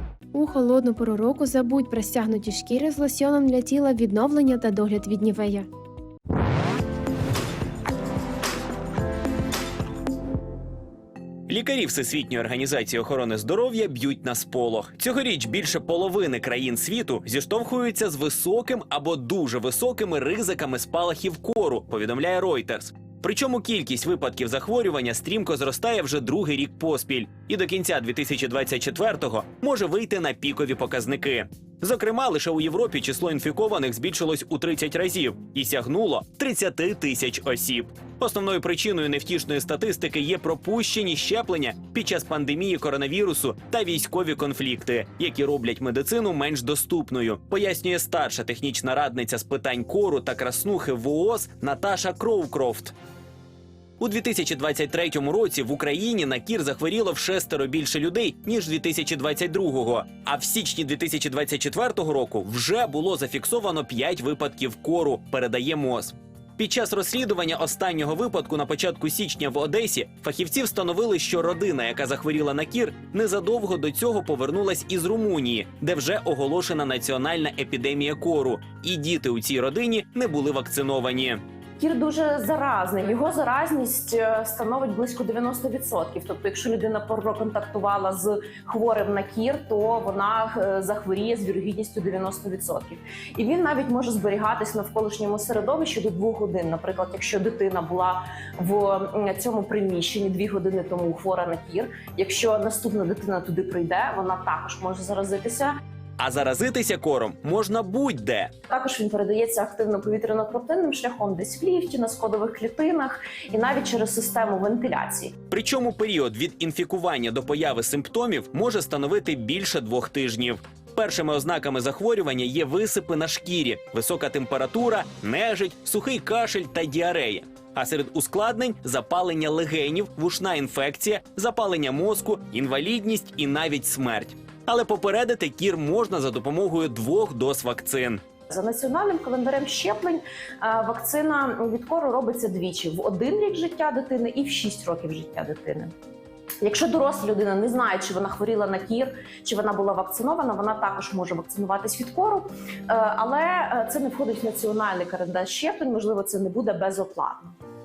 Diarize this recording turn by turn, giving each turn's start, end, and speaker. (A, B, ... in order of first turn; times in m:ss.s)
0:00.3-0:05.7 A
0:11.5-0:52.9 B
0:54.0-1:21.4 B
1:21.8-1:45.8 C
1:46.2-1:48.5 B
1:48.7-1:55.3 C
1:55.5-2:18.2 B
2:18.5-2:25.9 C
2:26.6-2:37.6 C